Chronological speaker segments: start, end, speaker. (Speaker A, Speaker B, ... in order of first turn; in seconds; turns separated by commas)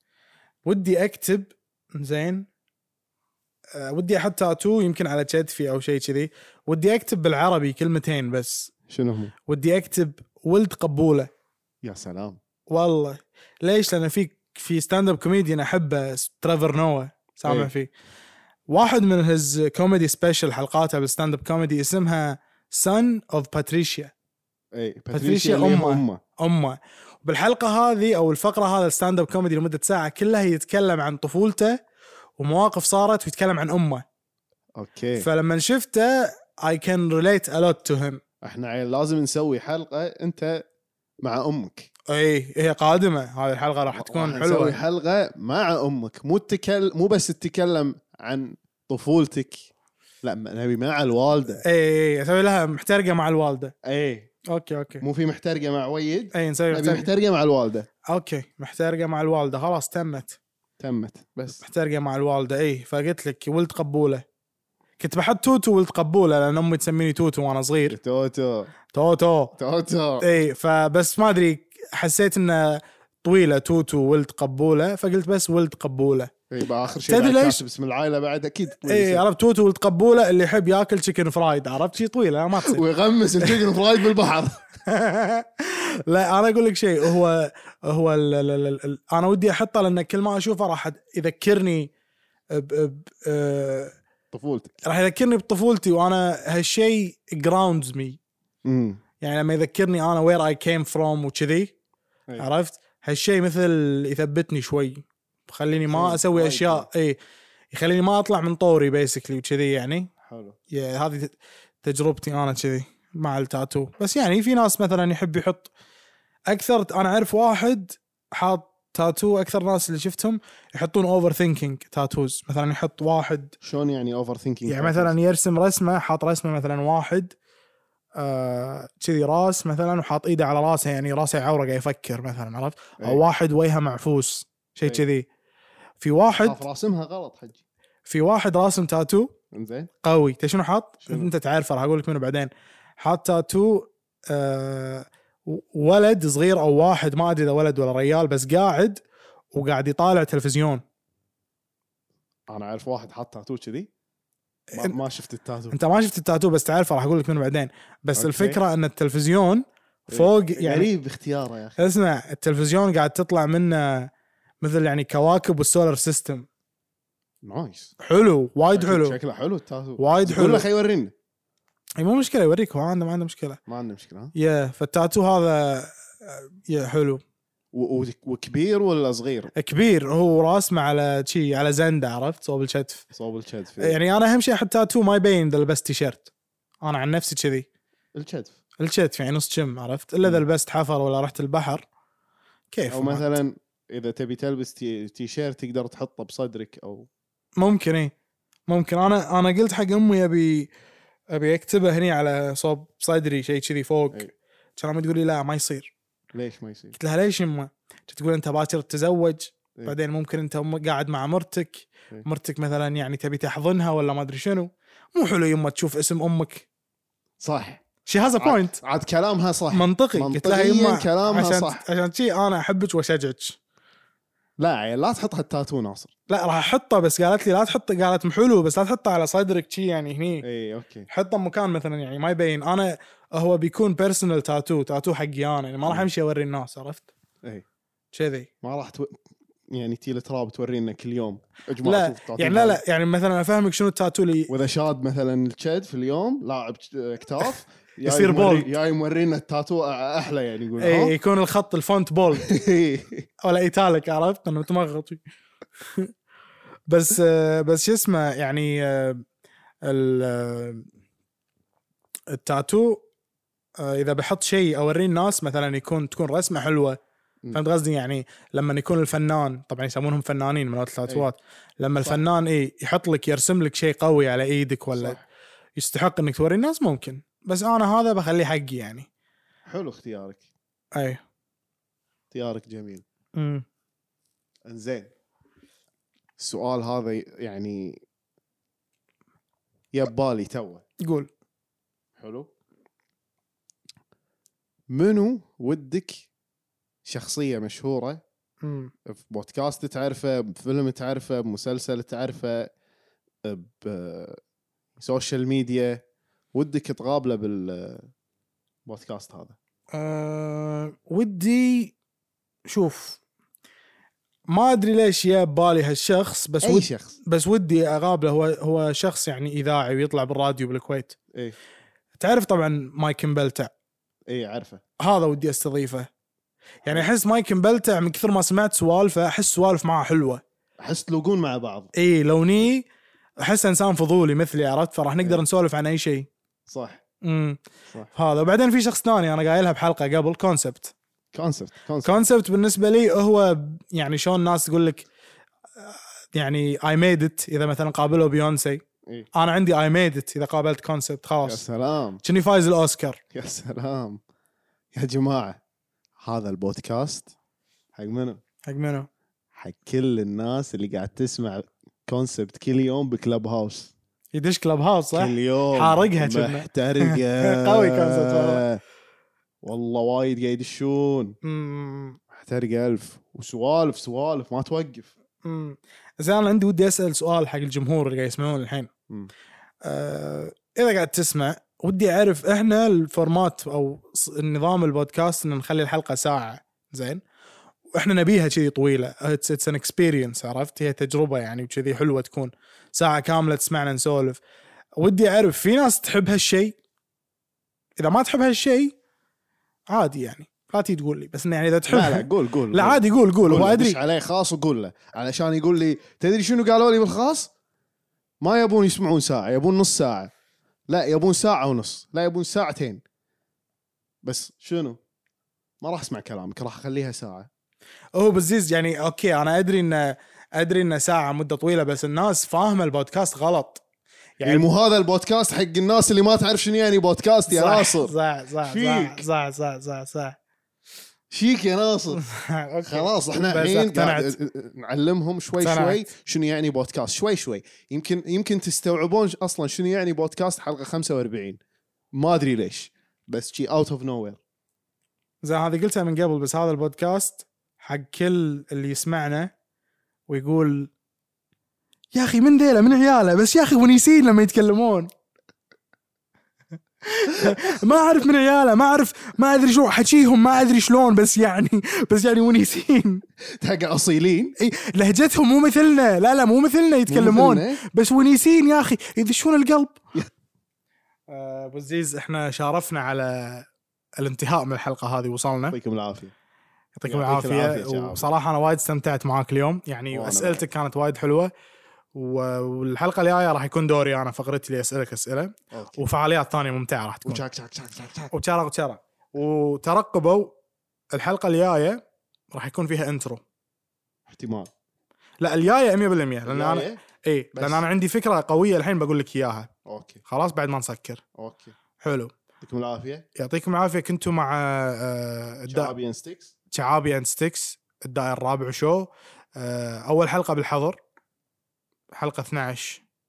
Speaker A: 0.6-2.5, Speaker A: 3.8-8.7, Speaker B: 8.9-9.3, Speaker A: 9.4-11.3, Speaker B: 11.8-12.4, Speaker A: 12.7-17.9, Speaker B: 17.4-17.7, Speaker A: 18.7-24.1, Speaker B: 24.8-26.2, Speaker A: 25.1-31.8, Speaker A: 32.4-34.0, Speaker B: 34.8-35.3, Speaker A: 35.2-38.2, Speaker B: 38.4-40.6, Speaker B: 41.2-41.9, Speaker A: 42.1-44.8, Speaker B: 43.9-49.7, Speaker B: 50.2-51.6, Speaker A: 51.6-53.7, Speaker B: 53.8-54.3, Speaker A: 54.5-55.0, Speaker B: 55.0-57.9, Speaker A: 56.3-57.1, Speaker A: 58.1-60.4, Speaker B: 60.8-61.6, Speaker A: 61.6-64.2, Speaker A: 65.0-68.0, Speaker B: 67.9-68.7, Speaker A: 68.9-69.5, Speaker B: 69.6-70.2, Speaker A: 70.2-76.3, Speaker B: 76.5-79.2, Speaker A: 77.1-77.6, Speaker A: 78.8-82.8, Speaker B: 82.6-84.6, Speaker A: 84.9-91.9, Speaker A: 92.5-94.0, Speaker B: 94.3-94.8, Speaker A: 94.8-98.2, Speaker B: 98.6-99.0, Speaker A: 99.2-101.7, Speaker A: 102.4-107.2, Speaker B: 105.9-106.9, Speaker A: 107.7-110.1, Speaker B: 110.2-110.6, Speaker A: 110.7-115.7, Speaker A: 116.5-123.5, Speaker B: 123.6-125.1, Speaker A: 124.7-127.3, Speaker A: 128.2-135.3, Speaker A: 136.0-136.6, Speaker B: 136.3-137.6, Speaker A: 138.1-139.3, Speaker B: 139.5-139.9, Speaker A: 140.0-149.0, Speaker B: 141.1-141.3, Speaker A: 149.5-150.8, Speaker B: 152.5-153.9, Speaker B: 154.8-155.8, Speaker A: 155.7-160.9, Speaker B: 158.2-158.6, Speaker B: 160.1-161.8, Speaker A: 161.8-164.1, Speaker A: 164.6-166.5, Speaker B: 167.4-167.9, Speaker A: 168.0-169.2, Speaker B: 168.7-171.1, Speaker A: 170.0-170.6, Speaker A: 172.0-173.6, Speaker B: 173.7-174.3, Speaker A: 174.3-177.2, Speaker B: 177.7-179.5, Speaker A: 179.6-183.0, Speaker B: 183.1-184.0, Speaker A: 183.8-186.3, Speaker A: 186.8-187.7, Speaker B: 188.2-188.5, Speaker A: 188.8-191.8, Speaker A: 192.7-193.3, Speaker B: 192.9-197.1, Speaker A: 197.6-198.1, Speaker A: 198.7-200.7, Speaker A: 201.3-205.9, Speaker B: 206.3-206.9, Speaker A: 206.9-216.7, Speaker B: 217.4-217.8, Speaker A: 218.1-218.8, Speaker B: 218.3-221.8, Speaker A: 219.7-223.6, Speaker B: 224.6-226.1, Speaker A: 226.3-230.4, Speaker B: 230.4-231.1, Speaker A: 231.1-237.1, Speaker A: 238.1-238.5, Speaker B: 238.6-239.2, Speaker B: 239.7-242.8, Speaker A: 241.8-244.5, Speaker B: 244.5-251.1, Speaker A: 248.1-248.7, Speaker A: 250.8-252.5, Speaker B: 252.4-253.3, Speaker A: 253.4-255.2, Speaker A: 256.9-259.2, Speaker A: 259.9-260.9, Speaker A: 262.3-263.0, Speaker A: 263.8-267.0, Speaker A: 267.5-275.2, Speaker B: 274.9-275.2, Speaker A: 275.8-279.1, Speaker B: 279.7-280.4, Speaker A: 280.9-281.2, Speaker B: 282.3-283.0, Speaker A: 283.4-283.6, Speaker B: 284.7-285.1, Speaker B: 286.4-288.0, Speaker B: 289.9-290.8, Speaker A: 291.0-291.3, Speaker B: 292.2-292.5, Speaker B: 294.9-296.3, Speaker B: 297.1-298.2, Speaker A: 298.6-298.9, Speaker B: 299.1-302.7, Speaker B: 303.4-304.4, Speaker B: 305.0-306.0, Speaker B: 306.5-308.1, Speaker B: 308.9-309.6, Speaker A: 309.9-311.9, Speaker A: 312.7-313.2, Speaker A: 314.5-321.2, Speaker B: 316.6-317.1, Speaker A: 322.2-323.7, Speaker B: 324.3-324.8, Speaker A: 325.0-326.1, Speaker A: 326.8-330.4, Speaker B: 330.8-331.9, Speaker A: 331.9-332.9, Speaker A: 333.4-336.3, Speaker B: 336.7-337.0, Speaker A: 337.2-337.6, Speaker A: 338.1-340.9, Speaker B: 341.3-342.2, Speaker A: 342.0-345.1, Speaker A: 345.8-348.8, Speaker A: 349.3-351.6, Speaker B: 351.4-352.2, Speaker A: 352.2-353.2, Speaker B: 353.3-354.2, Speaker B: 354.9-355.6, Speaker B: 356.2-357.3, Speaker B: 357.9-358.4, Speaker A: 358.7-359.1, Speaker B: 359.6-363.9, Speaker A: 364.3-368.6, Speaker B: 365.1-368.8, Speaker B: 369.6-371.4, Speaker A: 371.4-372.2, Speaker B: 372.3-375.1, Speaker A: 375.4-378.9, Speaker A: 379.8-387.2, Speaker A: 387.9-394.4, Speaker A: 395.0-396.8, Speaker A: 398.0-398.9, Speaker A: 399.9-404.0, Speaker B: 401.9-407.5, Speaker B: 408.4-410.3, Speaker B: 410.9-413.0, Speaker B: 414.2-415.0, Speaker B: 415.8-417.5, Speaker A: 418.1-423.8, Speaker A: 424.4-424.6, Speaker B: 424.4-429.3, Speaker A: 427.5-430.4, Speaker B: 431.3-432.2, Speaker A: 432.1-434.4, Speaker B: 432.8-441.6, Speaker A: 435.6-436.1, Speaker B: 442.1-444.4, Speaker A: 445.4-449.5, Speaker A: 450.3-450.9, Speaker A: 452.1-455.1, Speaker A: 457.1-463.2, Speaker B: 457.4-457.7, Speaker B: 463.6-464.6, Speaker A: 464.6-470.0, Speaker B: 467.1-467.8, Speaker A: 471.3-473.7, Speaker A: 474.2-475.8, Speaker B: 475.7-476.3, Speaker A: 476.9-481.5, Speaker B: 477.1-478.3, Speaker B: 480.1-480.7, Speaker A: 482.1-487.4, Speaker B: 485.7-486.0, Speaker B: 487.3-488.3, Speaker A: 488.3-490.5, Speaker A: 491.1-492.0, Speaker A: 492.5-493.4, Speaker B: 494.3-494.7, Speaker A: 495.4-499.7, Speaker B: 496.4-497.0, Speaker B: 497.5-497.8, Speaker B: 499.9-500.2, Speaker A: 500.2-501.2, Speaker B: 501.4-501.7, Speaker A: 502.0-502.3, Speaker B: 502.6-503.3, Speaker A: 503.4-505.9, Speaker B: 505.7-506.5, Speaker A: 506.7-511.0, Speaker A: 512.1-513.0